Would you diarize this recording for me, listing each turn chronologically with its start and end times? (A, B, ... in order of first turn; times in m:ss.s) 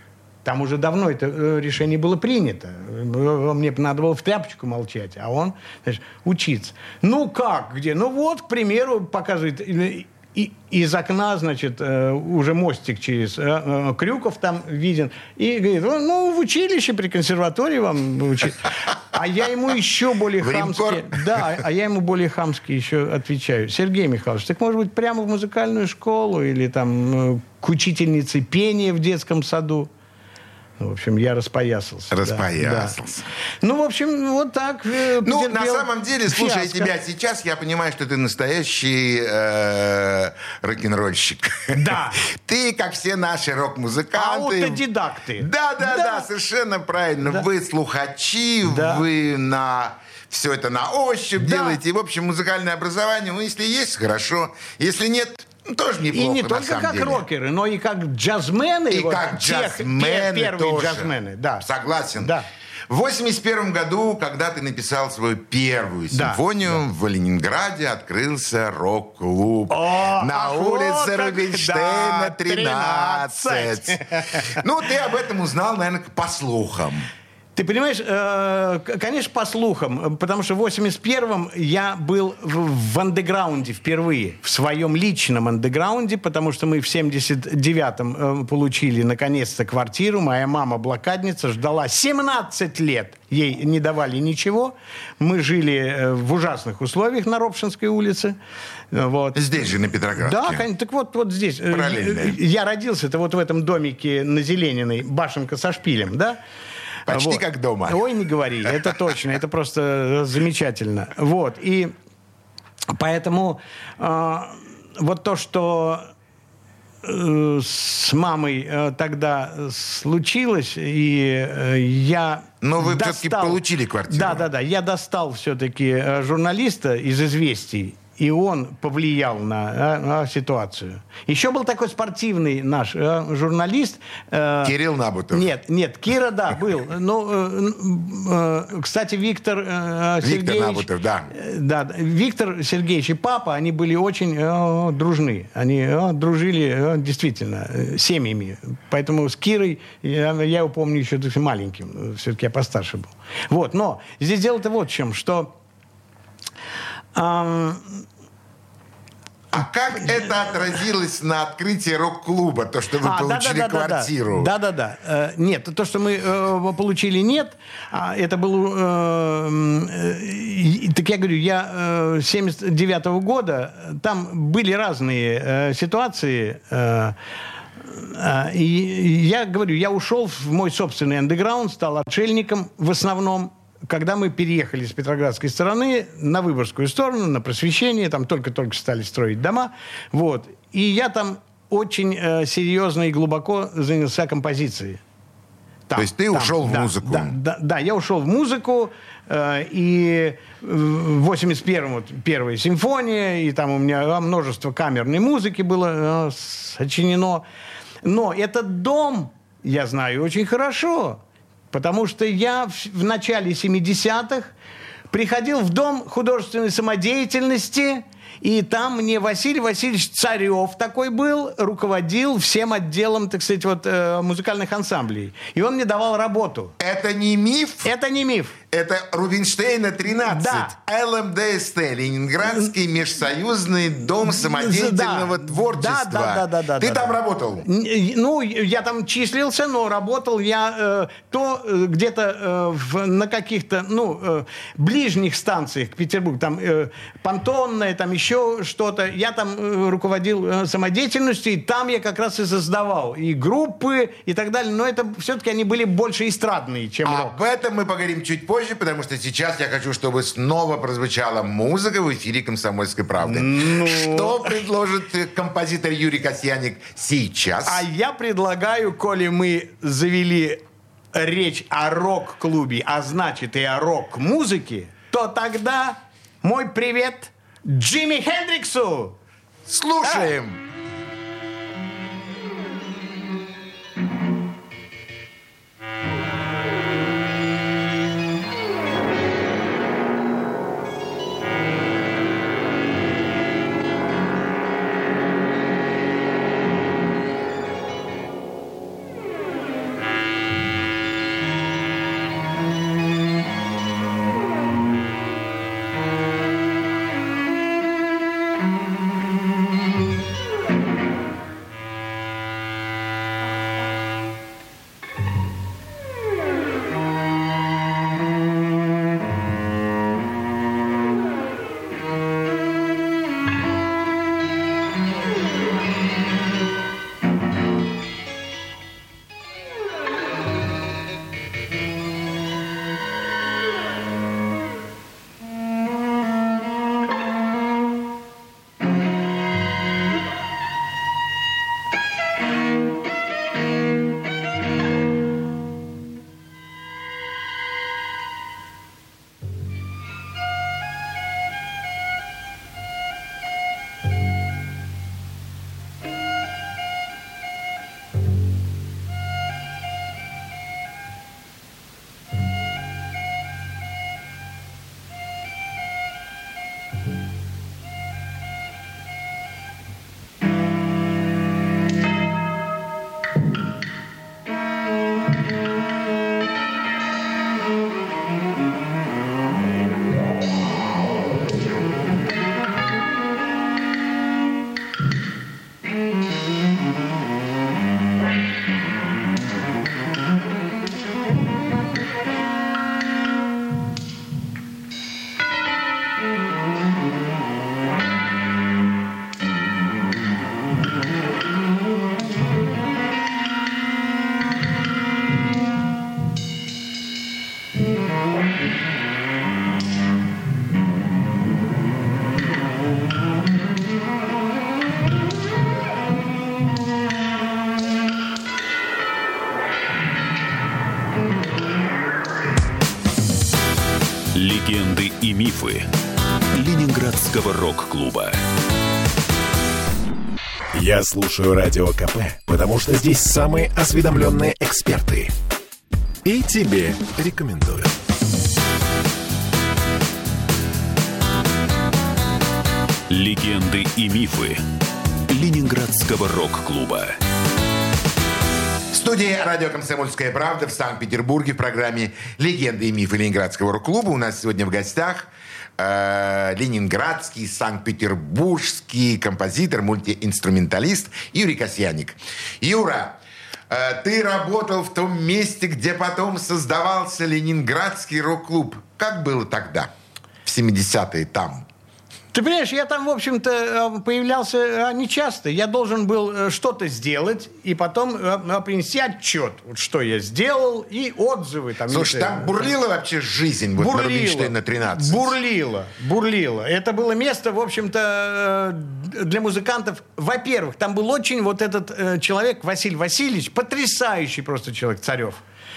0:00.4-0:29.9 A
0:20.4-0:21.5 B
0:30.8-0:33.0 A
0:32.1-0:33.3 B
0:33.6-0:36.9 A
0:35.2-0:44.8 B
0:41.7-0:42.2 A
0:44.1-0:46.3 A
0:45.4-0:57.2 B
0:48.6-0:49.0 A
0:51.4-0:51.8 A
0:56.1-1:02.5 A
0:58.9-1:01.1 B
1:01.6-1:02.3 B
1:02.9-1:17.1 B
1:06.1-1:06.8 A
1:09.7-1:14.6 A
1:17.5-1:38.4 A
1:38.9-1:46.4 A
1:39.3-1:40.6 B
1:41.7-1:42.4 B
1:47.0-1:51.9 A
1:47.1-1:48.0 B
1:52.9-1:56.1 A
1:57.0-2:14.7 A
2:02.6-2:04.4 B
2:14.6-2:15.5 B
2:15.3-2:35.5 A
2:20.2-2:21.3 B
2:37.1-2:38.0 A
2:39.5-2:44.5 B
2:43.0-2:57.2 A
2:57.8-3:15.0 A
3:15.9-3:27.4 A
3:16.0-3:17.3 B
3:28.0-3:31.2 A
3:31.7-3:34.5 A
3:35.1-3:46.7 A
3:46.8-3:47.9 B
3:47.8-3:48.6 A
3:48.7-3:57.7 B
3:50.2-3:50.7 A
3:54.2-4:17.4 A
4:17.0-4:27.8 B
4:23.2-4:24.6 A
4:27.6-4:30.6 A
4:31.1-4:39.2 A
4:39.6-4:40.6 B
4:40.0-4:40.3 A
7:04.3-7:05.9 C
7:06.5-7:08.4 C
7:10.7-7:15.3 D
7:16.2-7:17.9 D
7:23.1-7:24.6 C
7:25.3-7:27.2 C
7:28.9-7:43.2 B
7:43.7-7:49.9 B
7:50.4-7:51.6 B
7:52.3-8:02.7 A
8:01.9-8:05.3 B
8:03.8-8:15.4 A